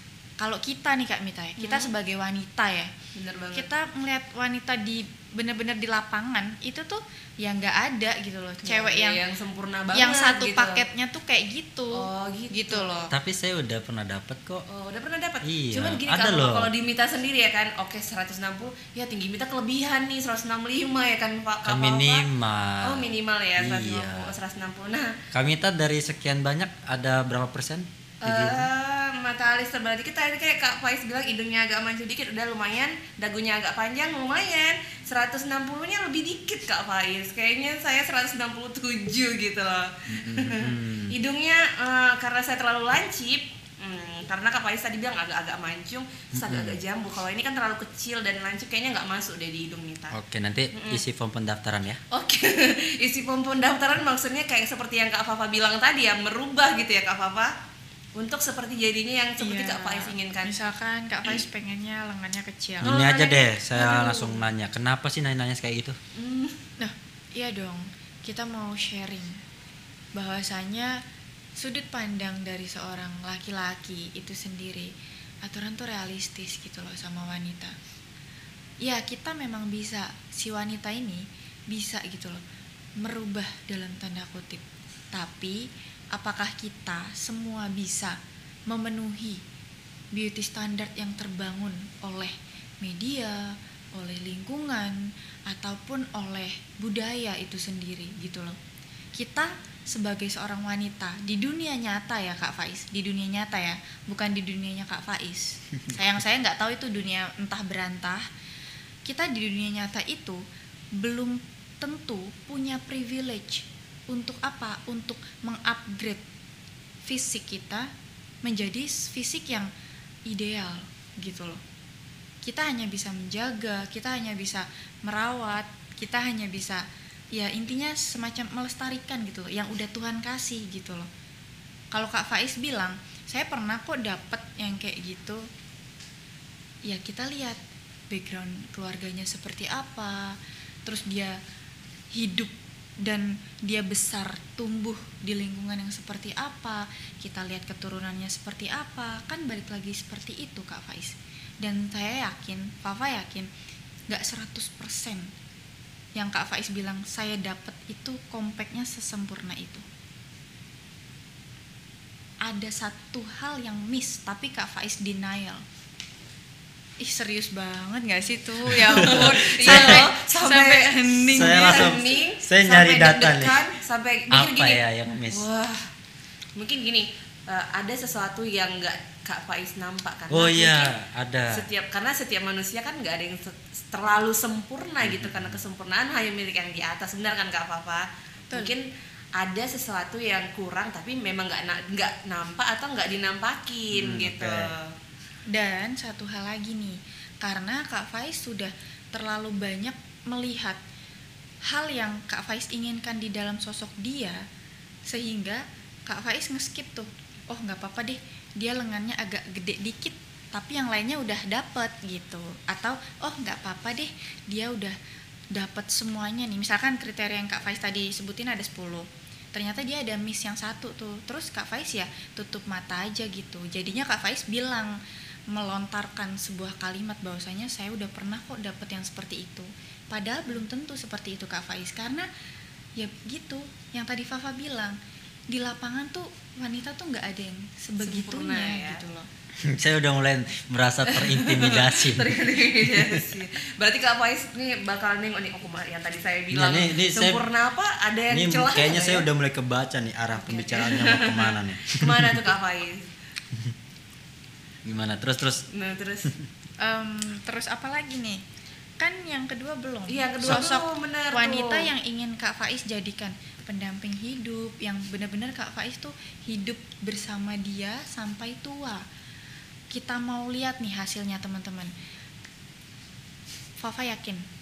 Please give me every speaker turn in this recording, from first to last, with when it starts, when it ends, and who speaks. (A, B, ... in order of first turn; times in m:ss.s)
0:00.4-0:02.9 A
0:01.6-0:01.9 B
0:03.1-0:03.7 B
0:03.5-0:09.2 A
0:08.6-0:10.8 B
0:09.9-0:13.1 A
0:11.9-0:12.8 B
0:13.1-0:14.6 C
0:14.7-0:22.2 B
0:15.4-0:16.7 C
0:21.6-0:24.3 C
0:22.8-0:25.2 B
0:25.3-0:28.7 C
0:28.2-0:50.1 B
0:40.1-0:41.2 C
0:46.3-0:46.8 C
0:50.1-0:52.0 C
0:50.7-0:51.0 B
0:52.1-0:57.5 B
0:58.2-1:00.5 B
0:59.4-1:02.9 A
1:02.8-1:06.0 C
1:02.8-1:04.4 B
1:06.2-1:06.6 B
1:06.8-1:09.4 A
1:10.1-1:11.0 A
1:11.6-1:14.9 A
1:15.4-1:17.7 A
1:18.8-1:22.4 A
1:23.0-1:25.6 A
1:26.1-1:28.2 A
1:28.7-1:29.4 A
1:30.1-1:38.6 A
1:39.2-1:48.2 A
1:49.0-1:50.4 A
1:51.0-1:56.2 A
1:57.1-1:57.9 A
1:58.4-1:59.7 A
2:00.3-2:01.6 A
2:02.4-2:11.1 A
2:11.9-2:15.4 A
2:16.9-2:17.6 A
2:18.1-2:20.3 A
2:20.8-2:21.4 A
2:22.1-2:22.5 A
2:23.0-2:33.5 A
2:34.1-2:35.3 A
2:36.2-2:39.8 A
2:42.4-2:45.6 A
2:47.0-2:52.1 A
2:48.8-2:50.0 C
2:48.9-2:55.9 B
2:51.3-2:53.6 C
2:54.3-2:55.4 C
2:56.6-3:00.9 B
3:00.3-3:01.7 C
3:01.5-3:08.8 B
3:05.0-3:05.6 C
3:09.4-3:14.9 B
3:13.9-3:14.7 C
3:15.5-3:20.8 A
3:21.7-3:24.4 A
3:25.1-3:34.9 A
3:35.5-3:44.9 A
3:45.5-3:52.3 A
3:53.0-3:55.0 A
3:55.5-3:59.3 A
3:58.0-3:59.0 B
3:59.6-4:03.2 C
4:01.0-4:09.3 B
4:06.5-4:07.4 C
4:08.3-4:12.5 C
4:10.4-4:13.1 B
4:14.8-4:15.6 C
4:15.7-4:16.3 B
4:16.8-4:18.4 A
4:19.0-4:29.0 A
4:20.1-4:21.9 B
4:29.9-4:31.9 A
4:33.8-4:34.4 A